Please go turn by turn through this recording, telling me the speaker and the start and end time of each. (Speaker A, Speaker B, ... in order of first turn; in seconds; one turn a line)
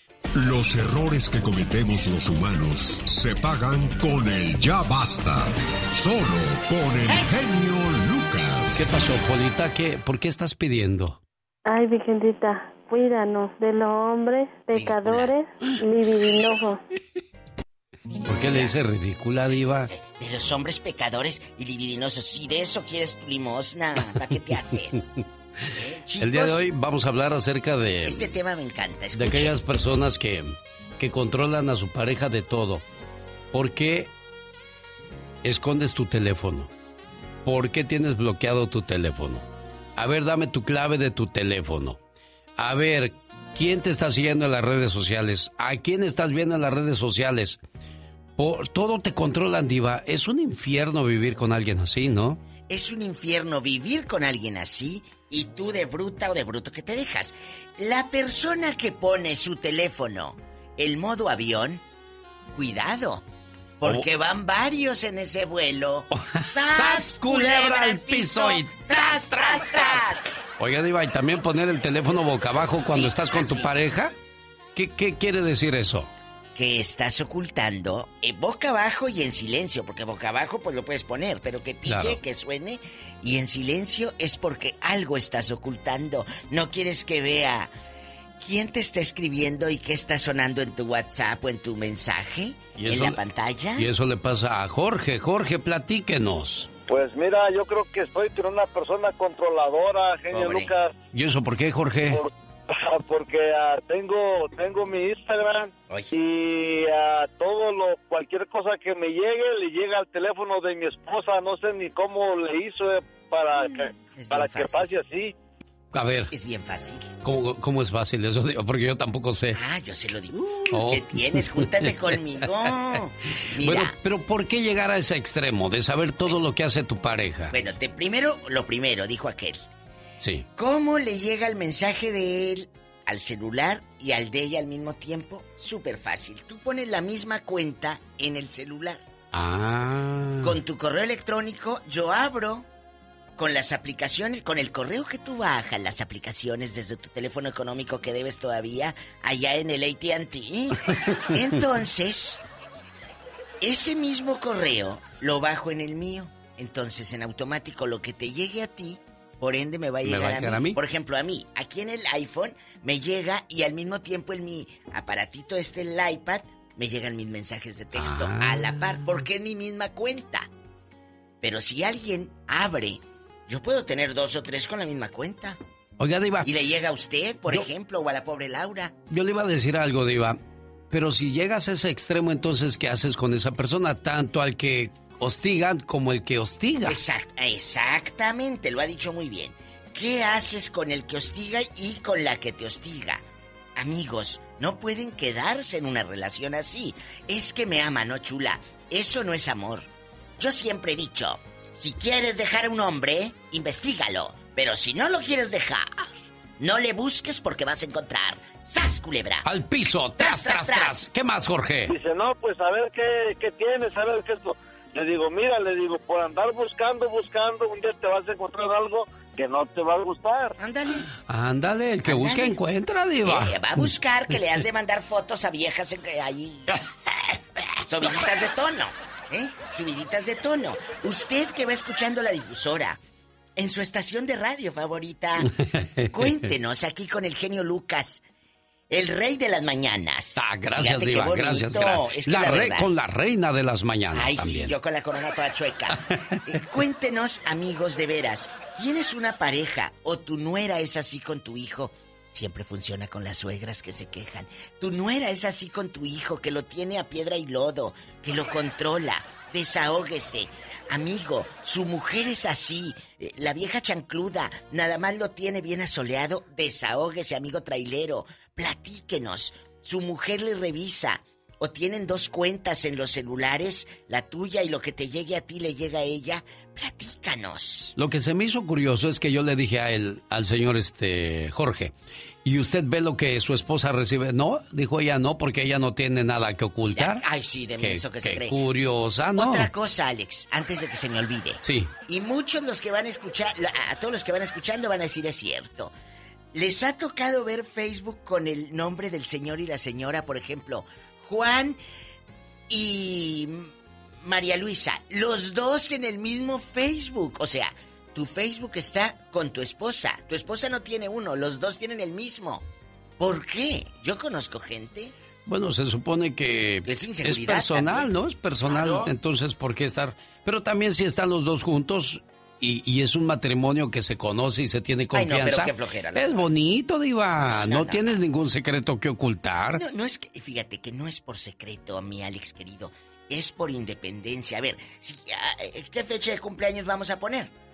Speaker A: 0.3-8.9
Speaker B: 8.8-11.2
Speaker C: 11.7-16.8
Speaker D: 14.7-15.3
Speaker D: 18.1-18.8
Speaker B: 18.2-19.9
Speaker D: 19.9-25.1
Speaker D: 25.7-26.6
Speaker B: 26.2-28.3
Speaker D: 28.1-29.6
Speaker B: 29.1-32.8
Speaker B: 33.5-34.1
Speaker B: 35.4-36.7
Speaker B: 37.5-42.0
Speaker B: 42.6-47.6
Speaker B: 48.4-52.4
Speaker D: 52.7-61.8
Speaker D: 62.5-63.2
Speaker D: 63.8-70.4
Speaker B: 66.1-74.1
Speaker D: 72.6-73.7
Speaker B: 74.8-76.1
Speaker D: 76.5-87.7
Speaker B: 81.9-82.2
Speaker D: 88.4-93.9
Speaker B: 92.8-93.2
Speaker B: 93.8-96.7
Speaker E: 96.9-100.9
Speaker D: 100.3-100.7
Speaker B: 101.1-102.2
Speaker E: 102.1-115.3
Speaker D: 105.9-106.2
Speaker D: 114.1-115.0
Speaker B: 115.9-116.3
Speaker D: 116.3-117.1
Speaker B: 117.2-119.6
Speaker D: 119.5-123.9
Speaker B: 120.7-122.2
Speaker B: 123.6-127.6
Speaker D: 127.5-129.6
Speaker B: 130.2-130.5
Speaker D: 130.6-139.0
Speaker B: 139.3-140.6
Speaker D: 140.4-142.7
Speaker D: 143.4-150.8
Speaker D: 151.3-152.4
Speaker D: 153.6-170.5
Speaker B: 160.1-160.8
Speaker B: 167.9-169.2
Speaker D: 171.4-175.6
Speaker B: 176.0-176.5
Speaker D: 176.4-178.9
Speaker B: 179.1-180.4
Speaker B: 180.9-187.0
Speaker D: 186.8-193.2
Speaker D: 193.8-199.9
Speaker D: 200.4-209.5
Speaker B: 209.4-211.9
Speaker D: 210.2-211.1
Speaker E: 211.9-220.6
Speaker D: 220.6-221.1
Speaker B: 221.2-223.9
Speaker D: 222.1-222.6
Speaker D: 223.2-226.9
Speaker D: 227.9-233.0
Speaker D: 233.6-235.5
Speaker B: 235.5-236.2
Speaker D: 236.1-238.2
Speaker D: 238.9-242.9
Speaker B: 240.4-244.8
Speaker D: 244.1-277.9
Speaker B: 277.9-281.9
Speaker B: 282.4-287.2
Speaker D: 286.9-288.6
Speaker B: 287.8-289.7
Speaker D: 289.4-295.9
Speaker B: 291.6-291.9
Speaker D: 296.5-301.8
Speaker D: 302.7-303.7
Speaker D: 304.2-312.6
Speaker D: 313.2-315.1
Speaker B: 315.5-329.8
Speaker D: 316.9-318.1
Speaker D: 318.6-319.1
Speaker D: 325.1-326.5
Speaker D: 327.4-328.2
Speaker D: 329.8-337.5